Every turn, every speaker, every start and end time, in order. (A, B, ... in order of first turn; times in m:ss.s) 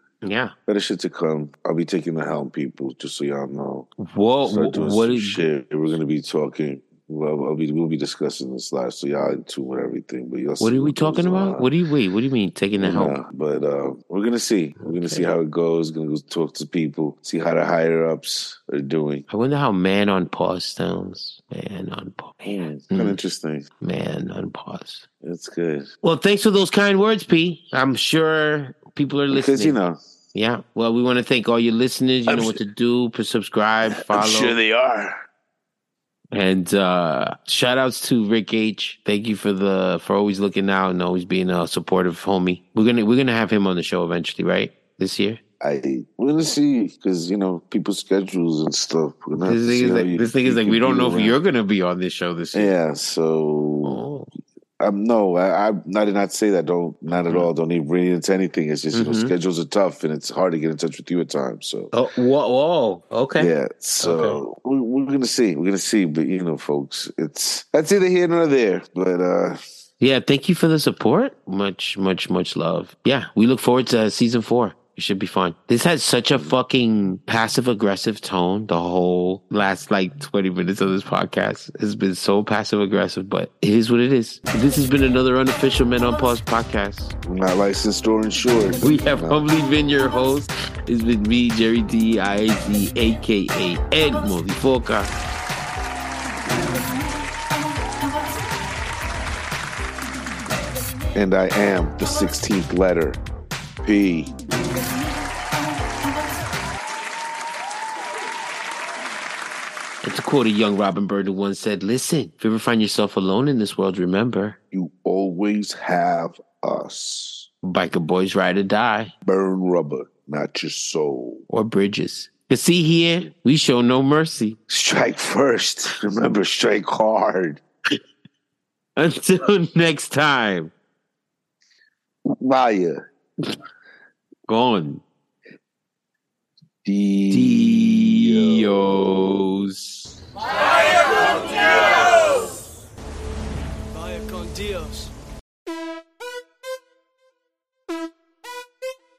0:00.2-0:00.5 A
0:00.7-0:03.9 B
0:04.0-0:05.4 A
0:04.4-0:11.7 B
0:10.6-0:13.2 A
0:12.8-0:19.2 B
0:14.8-0:15.4 A
0:19.3-0:23.2 A
0:22.4-0:23.7 B
0:23.8-0:25.0 A
0:25.2-0:25.9 B
0:26.0-0:29.8 A
0:29.3-0:30.0 B
0:30.3-0:34.6 A
0:32.3-0:32.6 B
0:33.9-0:35.2 B
0:36.3-0:45.4 A
0:45.6-0:51.4 B
0:49.4-0:52.8 A
0:52.5-0:54.0 B
0:53.8-0:54.3 A
0:54.8-1:01.9 B
0:57.1-0:57.5 A
0:58.9-0:59.3 A
1:01.9-1:04.4 A
1:03.4-1:09.6 B
1:10.0-1:27.1 A
1:27.2-1:29.4 B
1:28.8-1:35.1 A
1:41.2-1:43.2 B
1:43.8-1:44.4 B
1:50.0-1:54.6 A
1:54.7-1:57.5 B
1:57.6-1:59.1 A
1:59.2-2:01.4 B
2:01.5-2:04.6 A
2:04.7-2:07.6 B
2:09.0-2:10.7 A
2:12.3-2:13.0 B
2:14.5-2:15.0 A
2:16.8-2:19.4 B
2:17.3-2:20.1 A